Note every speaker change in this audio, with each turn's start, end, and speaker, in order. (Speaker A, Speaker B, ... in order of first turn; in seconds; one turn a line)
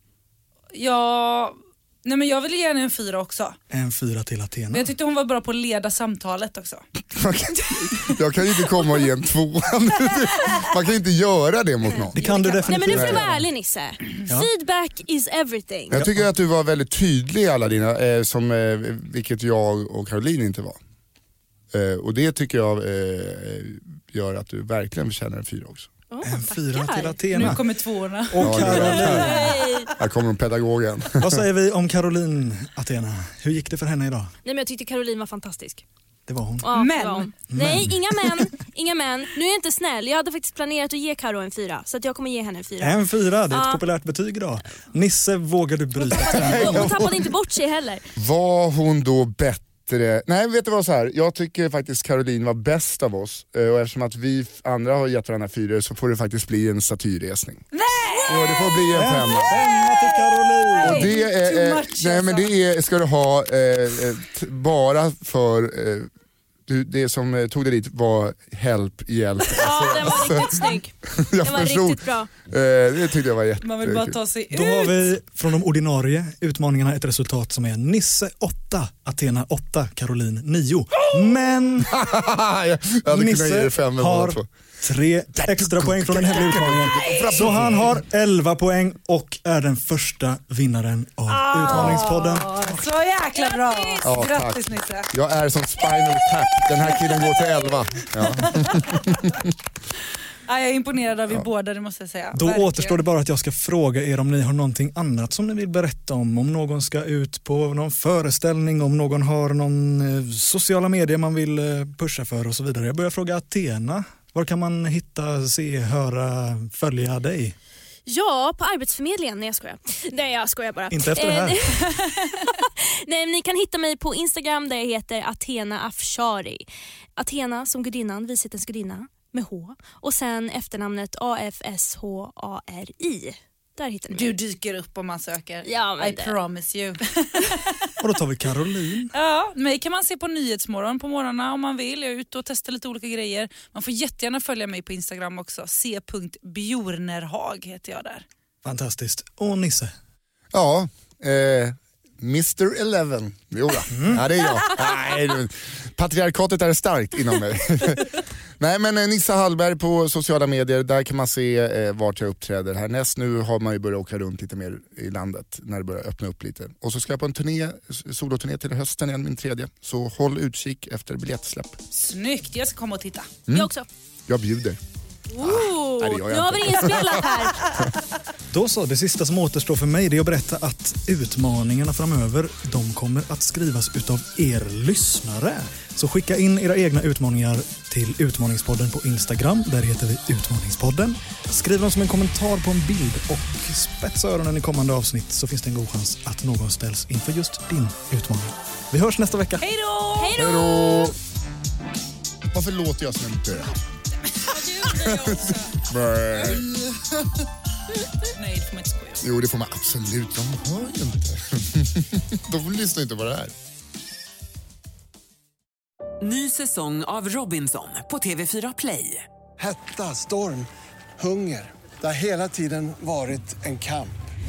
Speaker A: 0.7-3.6
Speaker B: 3.7-4.9
Speaker A: 4.7-6.8
Speaker C: 7.1-12.2
Speaker B: 12.2-13.5
Speaker A: 12.2-13.0
Speaker D: 12.7-16.0
Speaker C: 12.9-13.2
Speaker C: 15.9-20.8
Speaker B: 15.9-16.3
Speaker C: 21.7-25.9
Speaker D: 26.1-27.6
Speaker B: 26.2-27.6
Speaker A: 27.3-29.2
Speaker B: 28.3-29.6
Speaker C: 28.4-31.4
Speaker D: 28.9-29.9
Speaker B: 31.2-34.3
Speaker D: 34.5-35.8
Speaker B: 36.3-36.7
Speaker D: 36.6-43.8
Speaker A: 36.7-37.3
Speaker B: 37.5-38.4
Speaker B: 42.8-46.9
Speaker D: 46.1-48.1
Speaker C: 46.2-47.3
Speaker C: 48.2-57.6
Speaker A: 57.7-62.5
Speaker C: 58.3-59.6
Speaker B: 58.9-61.1
Speaker C: 60.8-66.1
Speaker C: 66.7-74.2
Speaker D: 69.6-72.3
Speaker A: 73.6-75.1
Speaker B: 74.5-82.0
Speaker C: 81.9-84.5
Speaker B: 83.1-92.8
Speaker C: 85.4-88.0
Speaker A: 87.0-87.7
Speaker A: 91.3-95.1
Speaker C: 91.7-92.0
Speaker D: 93.3-94.1
Speaker C: 94.0-99.4
Speaker A: 96.8-97.6
Speaker A: 98.2-99.2
Speaker A: 100.5-103.0
Speaker B: 102.3-117.5
Speaker D: 118.1-126.7
Speaker B: 120.9-121.8
Speaker D: 127.2-134.3
Speaker A: 134.1-137.9
Speaker D: 135.7-136.4
Speaker B: 138.0-139.1
Speaker A: 139.1-148.2
Speaker B: 148.6-149.9
Speaker C: 150.5-171.8
Speaker B: 153.9-154.2
Speaker A: 171.9-173.3
Speaker D: 173.5-173.9
Speaker C: 174.3-174.8
Speaker D: 175.3-177.7
Speaker C: 175.4-177.9
Speaker B: 178.5-199.7
Speaker A: 199.6-200.3
Speaker D: 200.2-201.1
Speaker C: 200.4-201.2
Speaker C: 202.5-203.8
Speaker A: 204.3-205.7
Speaker C: 204.9-206.8
Speaker A: 208.3-209.3
Speaker C: 209.2-213.5
Speaker E: 216.2-219.2
Speaker F: 219.6-224.1